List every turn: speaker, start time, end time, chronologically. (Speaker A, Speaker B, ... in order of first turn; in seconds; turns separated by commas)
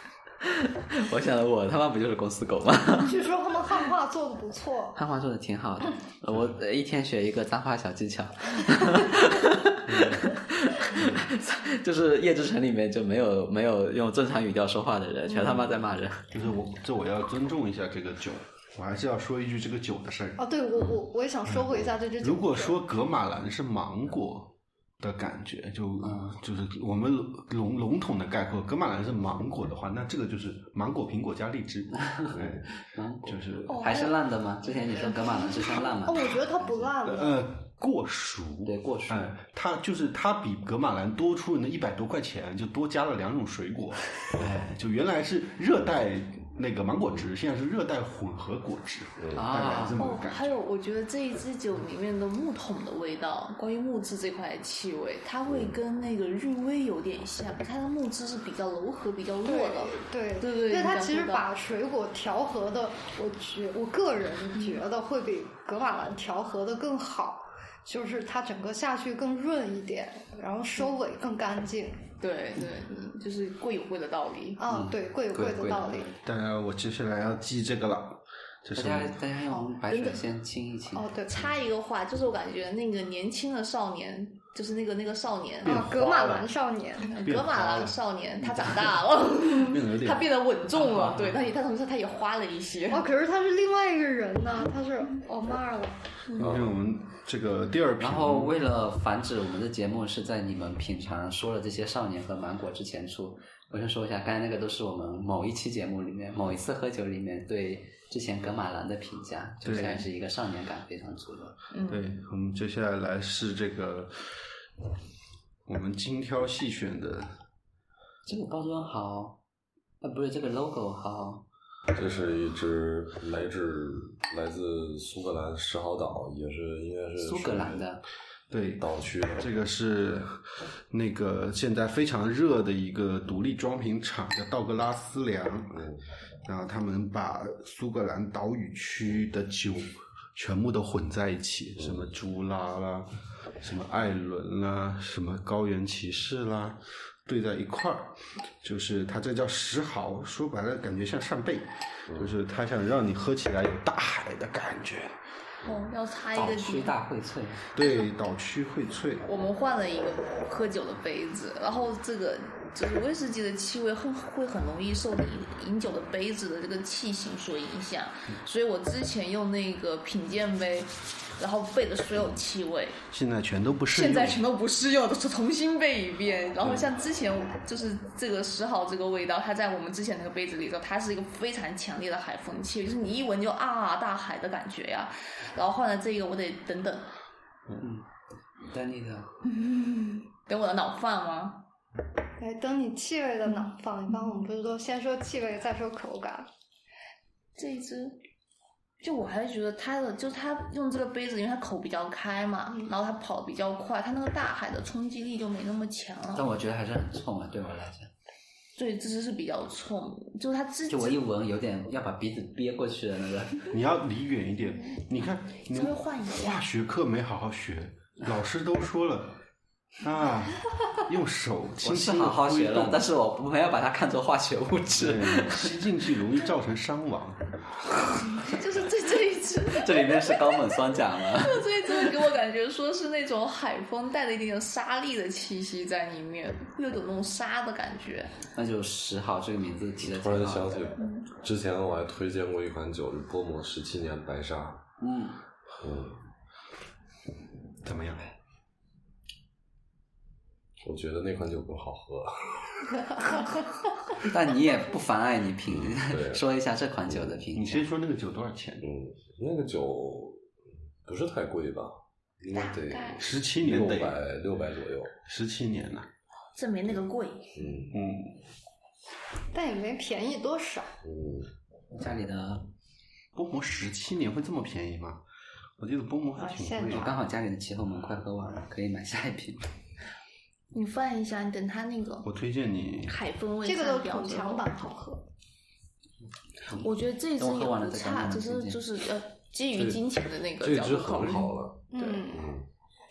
Speaker A: 0.4-3.2, Speaker B: 3.0-5.0, Speaker A: 4.9-16.3, Speaker C: 9.8-10.3, Speaker C: 10.9-11.2, Speaker C: 16.3-20.4, Speaker B: 20.4-22.8, Speaker C: 21.5-32.6, Speaker A: 26.0-26.4, Speaker A: 32.0-36.4, Speaker C: 33.2-33.9, Speaker D: 33.7-34.1, Speaker B: 35.8-37.4, Speaker C: 37.0-50.5, Speaker A: 38.6-39.3, Speaker A: 49.3-50.0, Speaker D: 50.0-61.5, Speaker B: 59.4-72.0, Speaker D: 72.2-74.6, Speaker B: 74.6-76.1, Speaker A: 74.7-76.1, Speaker C: 76.2-79.2, Speaker A: 78.7-81.1, Speaker D: 79.9-80.2, Speaker B: 80.9-81.5, Speaker D: 81.3-85.9, Speaker C: 85.6-86.5, Speaker B: 85.6-87.2, Speaker D: 87.0-93.0, Speaker C: 87.2-88.0, Speaker C: 89.5-90.3, Speaker A: 90.8-91.3, Speaker B: 92.9-96.0, Speaker C: 96.3-98.6, Speaker E: 96.4-96.7, Speaker A: 98.0-111.6, Speaker C: 109.6-110.0, Speaker D: 111.7-112.0, Speaker C: 111.8-114.3, Speaker C: 115.7-117.3, Speaker A: 118.2-119.4, Speaker A: 120.0-121.4, Speaker E: 121.9-127.8, Speaker A: 127.2-128.0, Speaker C: 128.5-128.8, Speaker E: 128.8-129.5, Speaker C: 129.4-135.9, Speaker E: 135.7-136.0, Speaker C: 136.4-143.1, Speaker E: 141.8-142.1, Speaker C: 143.6-155.2, Speaker D: 155.6-156.9, Speaker A: 156.3-157.7, Speaker C: 157.8-159.3, Speaker D: 157.8-158.1, Speaker D: 159.2-173.0, Speaker C: 173.1-174.4, Speaker D: 173.9-187.1, Speaker A: 187.8-188.1, Speaker A: 188.7-189.3, Speaker D: 189.5-191.6, Speaker B: 192.4-196.5, Speaker D: 197.6-198.2, Speaker D: 199.0-206.5, Speaker A: 206.3-208.1, Speaker D: 208.8-211.2, Speaker A: 210.9-213.7, Speaker C: 213.7-219.3, Speaker D: 215.7-216.6, Speaker C: 220.0-223.0, Speaker A: 221.8-225.8, Speaker C: 225.0-227.5, Speaker D: 228.4-230.8, Speaker A: 229.7-231.6, Speaker D: 231.3-238.4, Speaker A: 238.5-240.9, Speaker E: 240.0-244.8, Speaker D: 241.0-241.2, Speaker A: 245.0-245.4, Speaker E: 245.8-246.2, Speaker C: 247.8-248.3, Speaker E: 250.8-253.0, Speaker A: 254.2-257.8, Speaker E: 255.7-256.4, Speaker C: 257.5-258.9, Speaker E: 258.8-260.4, Speaker E: 261.0-265.1, Speaker D: 262.5-263.2, Speaker C: 263.2-264.2, Speaker C: 265.2-266.1, Speaker D: 266.6-267.6, Speaker E: 267.5-267.9, Speaker C: 267.9-268.3, Speaker B: 269.5-270.9, Speaker E: 271.0-271.5, Speaker A: 271.9-272.7, Speaker C: 273.3-275.2, Speaker C: 275.8-277.1, Speaker B: 276.4-277.1, Speaker A: 276.9-279.6, Speaker D: 280.7-282.3, Speaker C: 282.2-283.1, Speaker D: 283.1-284.6, Speaker B: 283.6-285.2, Speaker D: 286.7-292.3, Speaker A: 287.4-288.8, Speaker E: 289.7-290.0, Speaker E: 290.6-291.8, Speaker B: 291.9-292.5, Speaker E: 292.3-292.6